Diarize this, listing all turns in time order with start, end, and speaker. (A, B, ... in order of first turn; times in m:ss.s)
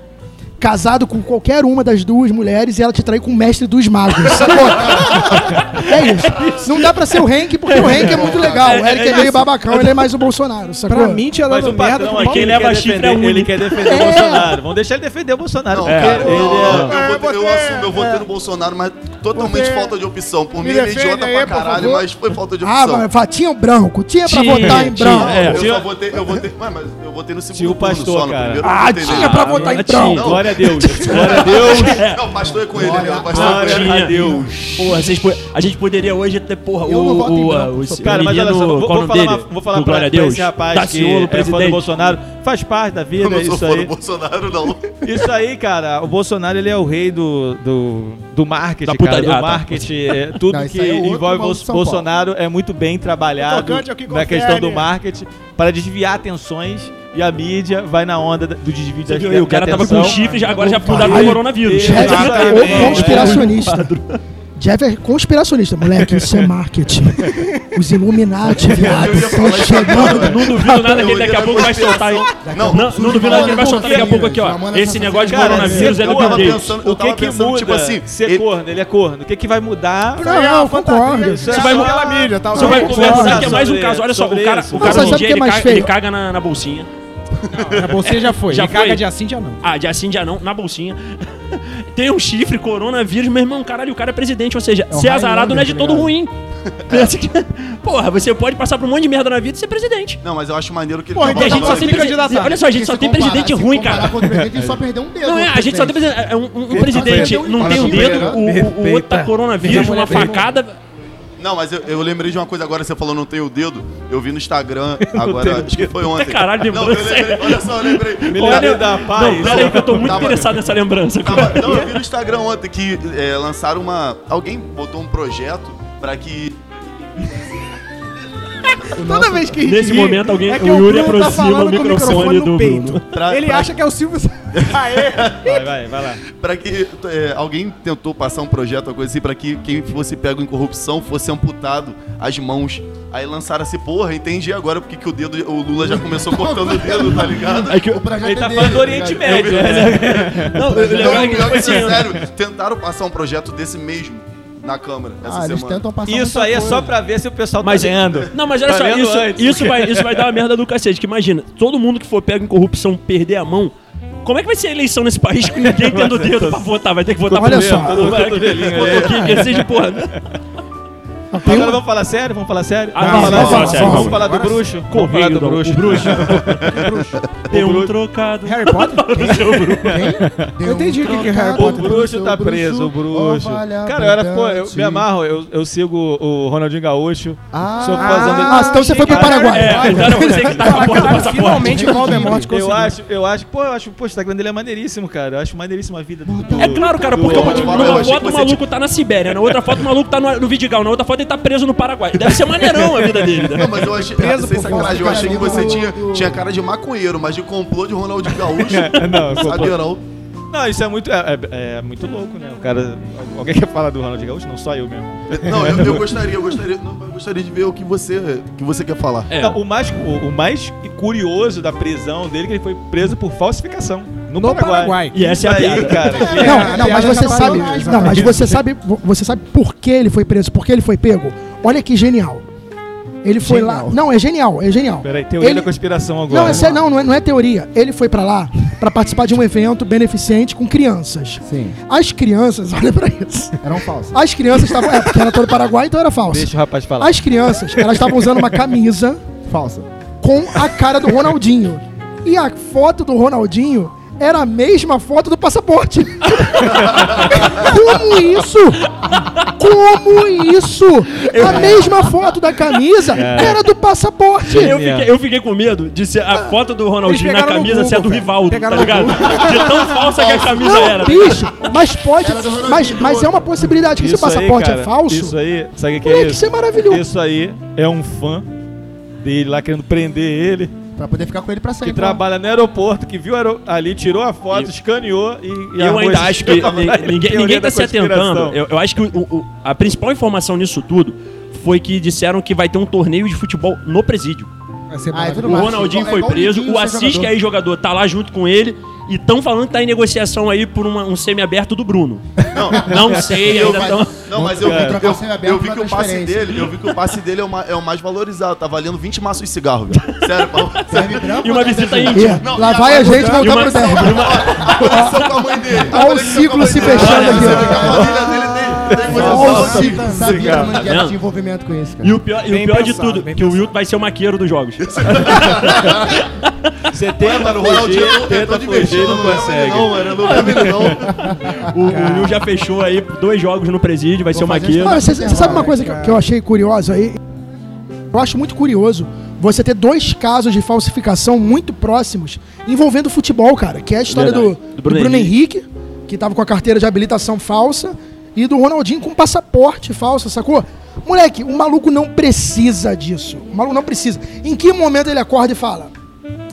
0:00.6-0:11.3 A
0:04.4-0:10.0 B
0:07.8-0:08.8 C
0:10.9-0:12.6 D
0:11.5-0:17.0 E
0:12.1-0:14.2 B
0:13.8-0:14.6 A
0:15.7-0:23.0 C
0:15.8-0:16.9 B
0:16.2-0:18.3 D
0:19.3-0:19.9 D
0:20.6-0:22.1 D
0:22.6-0:25.5 A
0:24.2-0:25.6 B
0:24.6-0:25.9 E
0:24.6-0:30.4 C
0:27.5-0:28.7 E
0:28.6-0:31.7 A
0:29.0-0:30.4 B
0:29.4-0:32.0 E
0:31.1-0:32.2 B
0:31.1-0:34.7 C
0:32.7-0:33.5 F
0:33.1-0:35.1 E
0:33.3-0:41.8 B
0:36.8-0:38.2 F
0:38.0-0:43.9 E
0:43.2-0:45.0 C
0:45.0-1:03.5 E
0:48.8-0:49.9 B
0:50.5-0:52.1 F
0:53.4-0:54.9 D
0:59.1-1:04.2 B
1:00.0-1:00.5 D
1:00.5-1:01.3 F
1:01.0-1:03.9 A
1:01.9-1:03.2 D
1:04.6-1:11.0 A
1:06.2-1:06.4 E
1:08.6-1:13.4 C
1:09.9-1:16.8 B
1:12.4-1:15.9 F
1:13.2-1:14.2 E
1:15.0-1:20.4 E
1:15.5-1:18.4 C
1:20.2-1:21.5 A
1:20.2-1:23.6 D
1:21.1-1:25.2 E
1:21.5-1:26.9 B
1:22.5-1:23.5 A
1:24.8-1:25.9 A
1:27.5-1:28.0 C
1:27.6-1:29.6 D
1:28.5-1:29.0 B
1:29.6-1:36.3 B
1:34.9-1:36.1 F
1:36.6-1:37.1 C
1:36.9-1:40.2 B
1:40.2-1:42.2 C
1:41.1-1:42.6 D
1:41.2-1:44.5 B
1:42.2-1:46.1 F
1:44.5-1:44.8 E
1:45.2-1:50.8 B
1:46.7-1:48.5 F
1:46.7-1:50.4 E
1:47.6-1:48.4 C
1:49.6-1:50.5 D
1:51.4-2:00.5 C
1:55.0-1:55.9 E
1:56.0-2:01.9 B
1:58.3-2:00.5 E
2:01.2-2:06.6 C
2:08.9-2:15.6 D
2:09.6-2:13.0 B
2:13.1-2:13.7 C
2:14.5-2:15.5 C
2:15.4-2:16.2 E
2:16.2-2:27.9 C
2:25.8-2:30.5 F
2:27.6-2:28.0 B
2:28.2-2:32.1 E
2:28.7-2:30.2 C
2:29.4-2:32.2 B
2:30.7-2:35.9 C
2:31.1-2:31.5 F
2:35.2-2:36.9 F
2:36.0-2:40.4 E
2:37.6-2:50.2 B
2:45.5-2:46.6 E
2:47.3-2:49.7 E
2:47.3-2:48.2 A
2:48.6-2:49.1 C
2:51.3-2:51.8 D
2:51.4-2:57.9 E
2:52.9-2:54.3 B
2:53.0-2:54.2 A
2:53.0-2:54.6 D
2:54.9-2:56.8 B
2:56.7-2:57.5 C
2:56.7-2:57.1 D
2:57.5-3:00.1 B
2:58.4-3:00.1 D
2:59.8-3:05.0 F
2:59.9-3:00.6 E
3:00.6-3:01.9 D
3:01.6-3:11.0 E
3:07.5-3:08.6 F
3:08.0-3:12.9 D
3:08.4-3:10.3 A
3:09.0-3:11.9 B
3:11.4-3:12.5 F
3:12.2-3:18.1 E
3:16.2-3:18.0 F
3:16.6-3:23.8 B
3:17.3-3:18.6 C
3:22.2-3:23.7 E
3:23.5-3:30.0 C
3:24.0-3:25.8 D
3:24.3-3:26.4 F
3:28.5-3:29.8 E
3:30.5-3:36.3 E
3:35.3-3:39.3 C
3:39.3-3:39.6 B
3:39.4-3:46.8 E
3:44.3-3:45.3 D
3:45.1-3:46.2 B
3:45.8-3:48.6 F
3:46.2-3:48.4 D
3:46.4-3:52.4 A
3:53.2-3:55.7 A
3:53.4-3:53.9 D
3:55.0-3:56.8 E
3:56.3-4:03.6 A
3:56.4-3:56.8 F
4:01.4-4:01.8 F
4:03.6-4:04.2 F
4:04.1-4:09.2 A
4:06.3-4:08.6 E
4:09.4-4:09.9 F
4:10.2-4:24.8 A
4:16.8-4:17.2 E
4:16.9-4:17.1 C
4:21.3-4:21.8 B
4:21.4-4:21.8 E
4:21.4-4:21.8 D
4:23.1-4:23.6 E
4:24.5-4:31.5 B
4:24.5-4:25.1 E
4:27.0-4:30.2 D
4:30.6-4:35.4 A
4:32.2-4:33.4 F
4:34.0-4:38.5 E
4:36.0-4:37.0 A
4:39.2-4:40.7 E
4:41.0-4:42.2 F
4:41.8-4:48.6 E
4:45.8-4:54.5 B
4:46.5-4:46.9 C
4:54.9-4:55.8 D
4:55.1-4:57.3 F
4:55.4-5:04.2 B
5:02.5-5:11.4 C
5:02.7-5:03.8 E
5:03.4-5:06.7 F
5:04.6-5:05.0 E
5:10.1-5:15.4 B
5:10.9-5:12.5 F
5:12.1-5:14.3 A
5:12.2-5:20.2 C
5:13.0-5:13.3 D
5:14.9-5:15.2 A
5:15.9-5:18.0 A
5:16.6-5:22.2 F
5:16.8-5:17.7 B
5:17.8-5:20.7 D
5:18.9-5:19.4 E
5:19.1-5:19.9 A
5:20.1-5:20.8 E
5:20.8-5:21.2 B
5:22.0-5:26.2 B
5:22.5-5:23.7 D
5:24.8-5:26.2 C
5:26.9-5:31.0 E
5:27.2-5:31.5 C
5:30.2-5:35.4 B
5:31.8-5:32.4 D
5:34.3-5:35.8 F
5:34.8-5:37.2 A
5:35.4-5:36.2 D
5:38.1-5:55.9 A
5:44.1-5:45.3 B